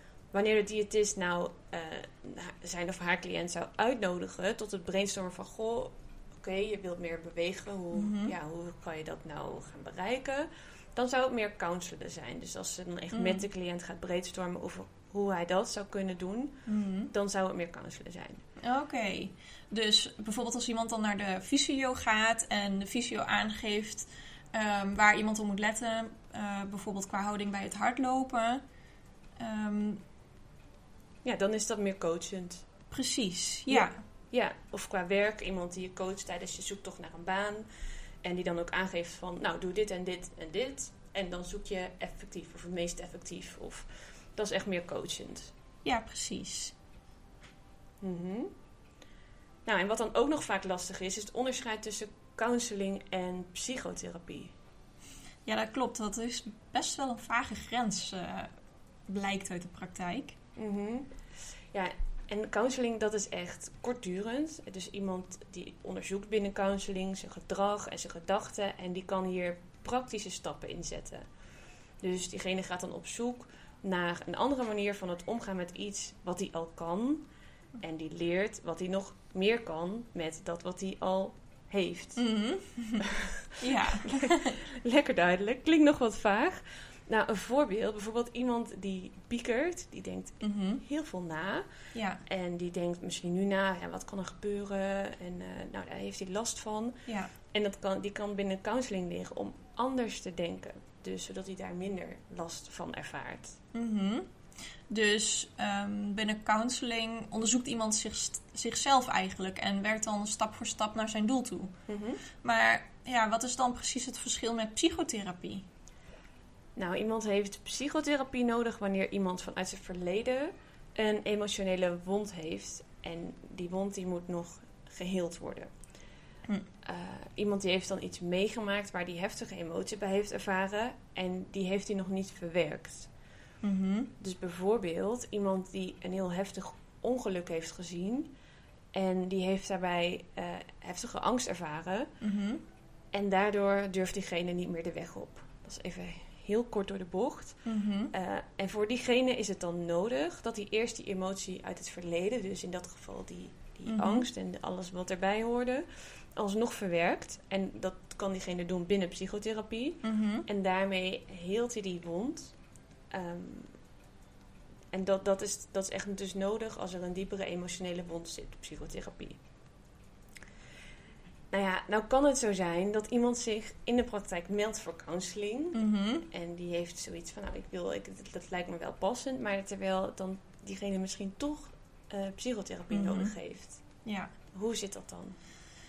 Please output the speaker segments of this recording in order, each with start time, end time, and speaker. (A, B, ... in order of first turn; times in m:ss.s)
0:00.3-0:16.6 A
0:07.9-0:08.3 B
0:13.1-0:13.5 B
0:16.7-0:17.1 B
0:17.1-0:18.4 A
0:18.6-0:28.6 B
0:29.4-0:30.0 B
0:31.2-0:32.7 A
0:32.9-0:34.0 B
0:33.7-0:37.7 A
0:38.2-0:45.5 A
0:45.8-0:46.8 B
0:48.0-0:48.5 A
0:49.7-0:54.5 A
0:55.5-0:58.5 B
0:59.1-1:00.4 B
1:00.6-1:01.1 A
1:01.7-1:11.3 A
1:12.0-1:17.3 A
1:17.8-1:22.2 A
1:22.2-1:23.1 B
1:23.1-1:23.5 A
1:23.6-1:24.6 B
1:24.0-1:31.7 A
1:30.4-1:30.8 B
1:31.9-1:32.2 B
1:32.2-1:37.0 A
1:37.1-1:37.3 B
1:37.5-1:43.6 A
1:43.7-1:44.3 B
1:44.9-1:51.7 B
1:51.9-1:52.2 A
1:52.4-1:55.6 B
1:56.8-2:05.7 A
2:06.8-2:13.1 A
2:13.6-2:14.1 B
2:14.2-2:18.3 A
2:18.9-2:22.1 A
2:22.2-2:22.6 B
2:23.1-2:27.6 A
2:27.7-2:28.1 B
2:28.1-2:42.5 A
2:33.9-2:34.3 B
2:40.0-2:40.5 B
2:43.1-2:43.7 A
2:44.9-2:49.4 A
2:51.5-2:55.8 A
2:55.7-2:56.3 B
2:56.3-3:03.8 A
3:02.9-3:03.3 B
3:04.0-3:04.3 B
3:04.5-3:05.4 A